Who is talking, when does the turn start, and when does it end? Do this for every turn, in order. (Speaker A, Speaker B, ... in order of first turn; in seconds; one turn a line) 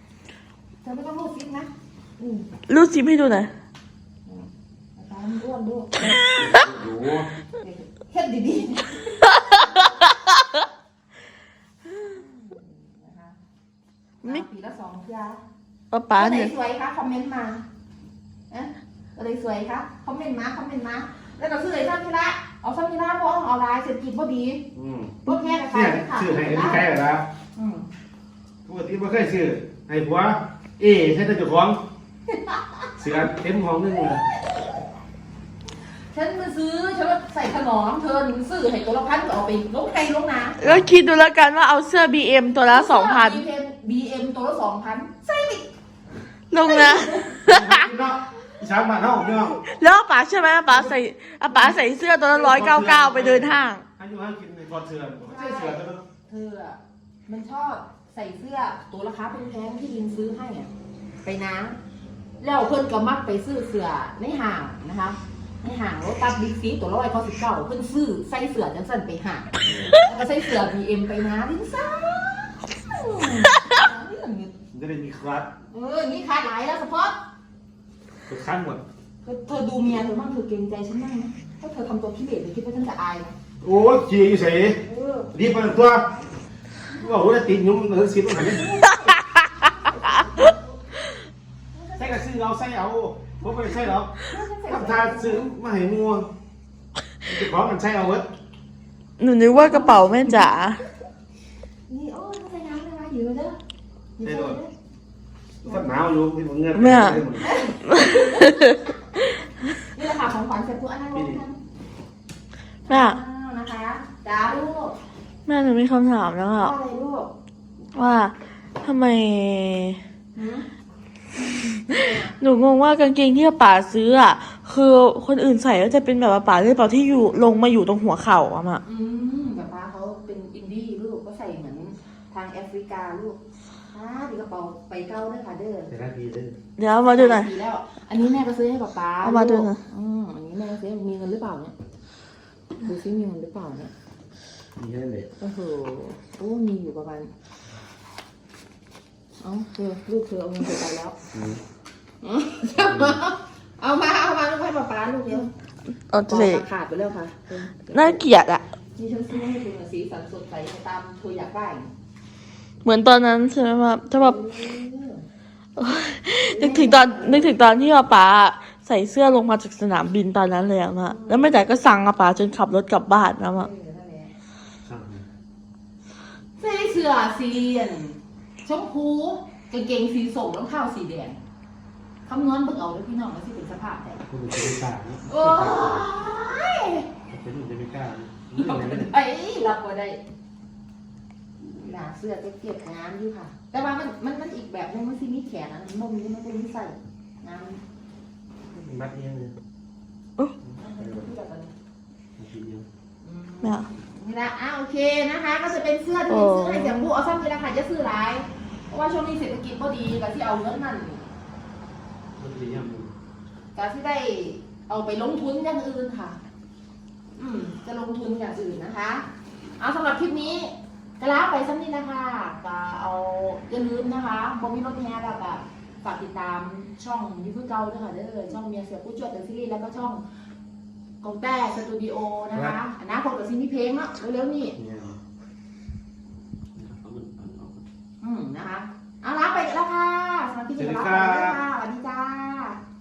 Speaker A: 0.8-2.5
Speaker B: 2.7-3.5
Speaker A: 4.2-6.2
Speaker B: 6.1-6.5
Speaker C: 6.2-7.3
Speaker A: 7.5-9.9
Speaker A: 12.0-13.4
Speaker A: 14.2-15.4
Speaker B: 15.9-16.5
Speaker A: 16.1-17.6
Speaker A: 18.5-24.6
Speaker C: 24.7-25.2
Speaker A: 25.2-26.9
Speaker C: 25.7-27.3
Speaker A: 27.5-27.9
Speaker C: 28.6-31.8
Speaker A: 32.3-33.2
Speaker C: 33.0-34.2
Speaker A: 36.1-40.8
Speaker B: 40.6-43.4
Speaker A: 42.7-45.7
Speaker B: 46.5-47.8
Speaker A: 46.6-47.4
Speaker C: 47.5-49.6
Speaker B: 49.6-53.8
Speaker A: 50.7-50.9
Speaker A: 51.5-51.9
Speaker C: 52.3-56.0
Speaker A: 55.2-60.7
Speaker A: 61.2-61.8
Speaker A: 62.4-74.5
Speaker C: 69.6-70.0
Speaker C: 74.7-75.5
Speaker A: 75.7-77.2
Speaker C: 78.3-78.8
Speaker A: 79.2-83.3
Speaker C: 83.6-84.8
Speaker A: 84.8-85.3
Speaker C: 85.3-86.1
Speaker C: 87.0-88.7
Speaker A: 88.5-90.9
Speaker A: 91.7-92.2
Speaker C: 92.0-94.2
Speaker A: 94.2-95.5
Speaker C: 94.7-96.3
Speaker C: 97.2-98.3
Speaker B: 99.2-100.8
Speaker A: 99.5-100.5
Speaker A: 101.9-103.6
Speaker A: 104.2-104.7
Speaker C: 104.2-104.6
Speaker C: 105.6-107.5
Speaker A: 105.6-105.9
Speaker B: 106.7-107.2
Speaker A: 107.4-108.5
Speaker B: 107.9-108.8
Speaker A: 109.9-111.6
Speaker C: 111.1-111.4
Speaker A: 112.9-115.0
Speaker B: 112.9-113.2
Speaker B: 115.5-116.7
Speaker A: 116.5-117.3
Speaker B: 117.9-120.0
Speaker A: 120.3-120.7
Speaker B: 121.9-128.8
Speaker A: 121.9-122.3
Speaker A: 128.8-133.4
Speaker A: 133.9-135.9
Speaker C: 135.9-136.6
Speaker B: 136.8-137.5
Speaker A: 137.0-141.7
Speaker B: 139.2-139.8
Speaker A: 142.8-143.9
Speaker C: 144.8-145.3
Speaker A: 145.4-147.3
Speaker A: 149.4-151.1
Speaker C: 151.3-151.6
Speaker A: 152.2-155.5
Speaker C: 152.8-153.2
Speaker B: 156.1-156.6
Speaker A: 156.2-158.2
Speaker B: 157.9-158.6
Speaker A: 158.9-161.9
Speaker B: 162.8-164.4
Speaker A: 164.1-165.2
Speaker B: 165.8-173.7
Speaker A: 166.5-167.6
Speaker A: 171.0-171.7
Speaker A: 173.5-174.3
Speaker C: 174.8-175.2
Speaker A: 176.6-181.4
Speaker A: 182.2-184.2
Speaker C: 184.3-186.1
Speaker A: 185.3-187.1
Speaker C: 187.3-189.1
Speaker A: 188.5-190.2
Speaker A: 191.7-197.8
Speaker C: 198.7-199.6
Speaker C: 200.6-201.3
Speaker A: 200.8-201.7
Speaker C: 202.4-202.8
Speaker A: 203.2-211.3
Speaker B: 203.6-203.9
Speaker B: 206.3-207.1
Speaker C: 212.4-213.1
Speaker A: 213.7-216.4
Speaker A: 217.4-219.3
Speaker A: 219.8-230.2
Speaker A: 231.2-234.8
Speaker C: 234.8-235.2
Speaker C: 236.7-237.8
Speaker A: 238.2-242.8
Speaker C: 240.8-241.6